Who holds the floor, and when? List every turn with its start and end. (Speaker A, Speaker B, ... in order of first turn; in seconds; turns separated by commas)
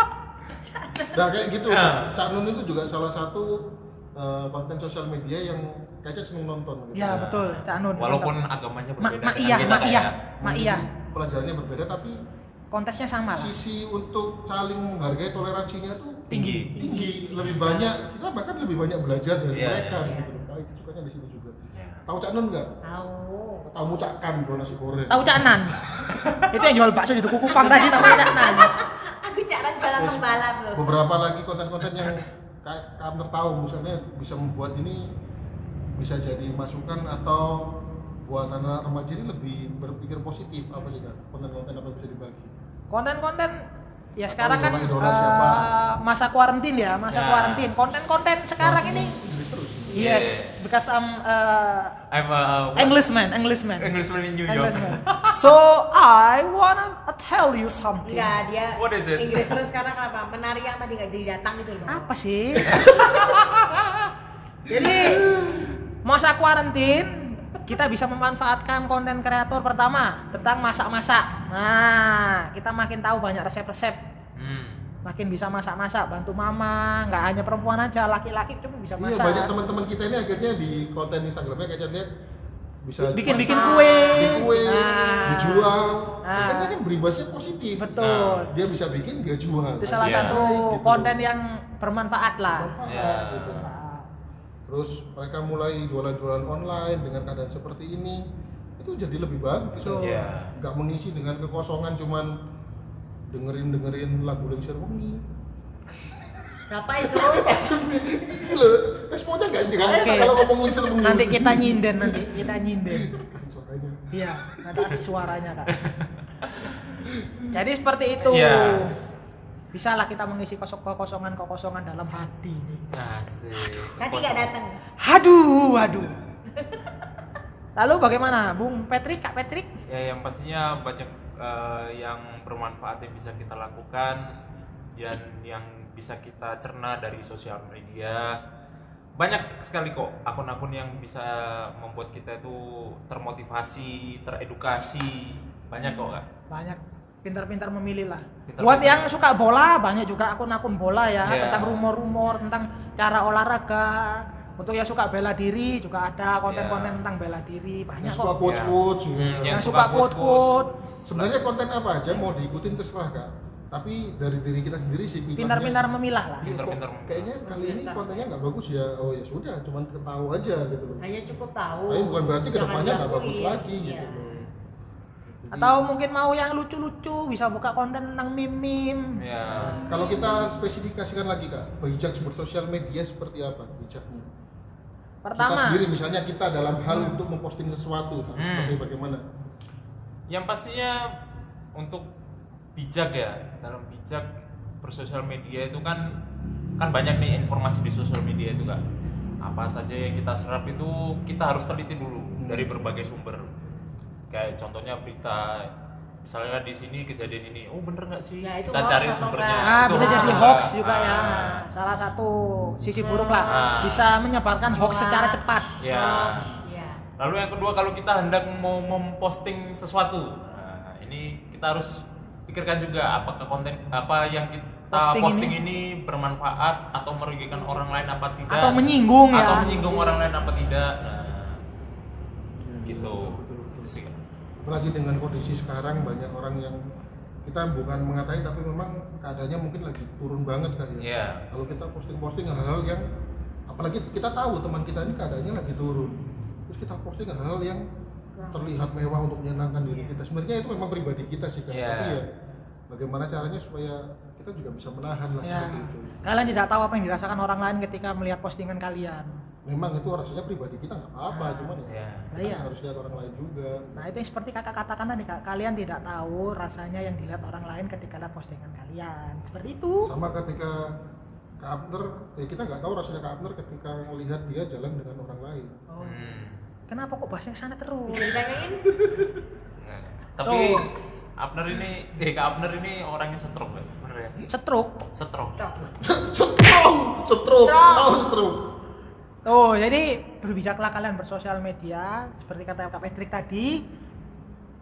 Speaker A: 0.6-1.2, Speaker B: 1.1-7.3, Speaker C: 1.7-2.1, Speaker D: 7.0-8.3, Speaker C: 7.1-10.2, Speaker D: 9.0-10.8, Speaker B: 10.4-12.2, Speaker D: 12.7-13.6, Speaker B: 13.3-22.7, Speaker D: 16.3-16.8, Speaker A: 16.8-17.9, Speaker C: 17.4-17.8, Speaker C: 19.5-20.1, Speaker A: 19.9-20.3, Speaker C: 21.8-22.1, Speaker A: 22.8-23.7, Speaker B: 23.7-25.6, Speaker D: 25.1-25.8, Speaker C: 26.1-26.4, Speaker D: 26.5-28.7, Speaker A: 27.5-31.0, Speaker B: 30.0-35.0, Speaker B: 35.9-42.5, Speaker D: 42.9-43.6, Speaker D: 44.2-49.1, Speaker B: 44.3-45.7, Speaker C: 47.1-47.7, Speaker B: 48.6-50.1, Speaker C: 49.9-50.6, Speaker D: 50.0-52.0, Speaker C: 52.1-53.1, Speaker D: 52.8-58.4, Speaker C: 53.8-55.4, Speaker A: 58.0-62.1, Speaker C: 58.8-59.6, Speaker D: 61.9-62.8, Speaker C: 62.7-64.0, Speaker B: 62.7-63.1, Speaker D: 64.7-65.2, Speaker B: 64.7-65.7, Speaker D: 66.0-74.0, Speaker C: 74.4-74.9, Speaker D: 75.0-79.5, Speaker B: 79.0-82.1, Speaker B: 82.8-91.2, Speaker D: 83.1-86.8, Speaker A: 83.2-84.4, Speaker D: 87.8-88.5, Speaker C: 88.0-88.5, Speaker D: 89.8-92.8, Speaker C: 90.0-90.4, Speaker B: 92.5-93.7, Speaker C: 92.8-93.7, Speaker D: 93.5-94.1, Speaker B: 94.7-98.2, Speaker B: 98.8-102.3, Speaker D: 99.8-100.2, Speaker C: 100.0-100.5, Speaker B: 103.3-105.2, Speaker A: 106.7-107.6, Speaker B: 107.0-112.4, Speaker D: 109.9-110.3, Speaker D: 111.0-113.1, Speaker B: 113.0-115.0, Speaker D: 114.1-115.7, Speaker C: 115.8-116.1, Speaker B: 117.1-117.5, Speaker D: 117.5-118.9, Speaker C: 118.3-118.9, Speaker D: 119.7-122.9, Speaker C: 122.9-124.5, Speaker A: 124.0-124.8, Speaker D: 125.0-126.2, Speaker D: 127.8-129.7, Speaker C: 129.9-134.2, Speaker C: 134.9-138.4, Speaker C: 139.2-146.3, Speaker D: 146.5-158.4, Speaker C: 148.5-149.1, Speaker C: 151.2-151.9, Speaker C: 156.5-157.0, Speaker B: 157.9-159.7, Speaker C: 158.5-161.4, Speaker D: 159.5-160.7, Speaker B: 161.1-165.8, Speaker D: 165.4-166.5, Speaker B: 166.4-171.1, Speaker C: 166.4-167.3, Speaker A: 167.4-168.3, Speaker A: 171.0-174.5, Speaker B: 171.9-174.5, Speaker B: 175.3-175.8, Speaker D: 175.5-179.9, Speaker C: 179.2-179.8, Speaker B: 179.7-184.3, Speaker D: 185.2-185.8, Speaker B: 185.4-189.2, Speaker C: 188.4-188.8, Speaker C: 190.3-191.1, Speaker C: 191.8-192.1, Speaker C: 192.8-194.3, Speaker C: 194.8-196.1, Speaker C: 196.8-198.8, Speaker C: 199.4-203.6, Speaker B: 202.4-202.8, Speaker C: 204.3-205.7, Speaker C: 206.2-211.6, Speaker A: 208.4-210.6, Speaker D: 209.6-215.8, Speaker A: 213.0-214.0, Speaker C: 213.4-214.1, Speaker A: 214.7-217.0, Speaker C: 215.8-216.5, Speaker C: 217.2-228.8, Speaker D: 224.9-225.6, Speaker D: 228.5-229.7, Speaker C: 229.3-231.6, Speaker B: 232.6-233.9, Speaker C: 232.9-234.2, Speaker B: 234.6-236.8, Speaker B: 237.4-243.1, Speaker C: 241.0-241.4, Speaker B: 243.7-247.8, Speaker A: 248.4-248.8, Speaker B: 248.5-252.3, Speaker A: 249.9-250.2, Speaker C: 251.7-252.2, Speaker B: 252.9-256.2, Speaker D: 255.4-259.3, Speaker B: 259.7-264.1, Speaker D: 261.4-261.8, Speaker C: 261.9-262.3, Speaker D: 262.3-262.7, Speaker D: 264.0-270.1, Speaker B: 270.1-270.8, Speaker B: 271.6-275.8, Speaker A: 275.9-276.2, Speaker C: 276.0-276.6, Speaker D: 276.9-278.4, Speaker A: 278.1-278.9, Speaker B: 278.9-279.4, Speaker C: 279.8-284.4, Speaker D: 280.4-280.9, Speaker D: 284.5-285.0, Speaker C: 285.1-285.6, Speaker A: 285.6-285.9, Speaker B: 286.0-288.6, Speaker A: 287.6-288.2, Speaker D: 289.4-293.8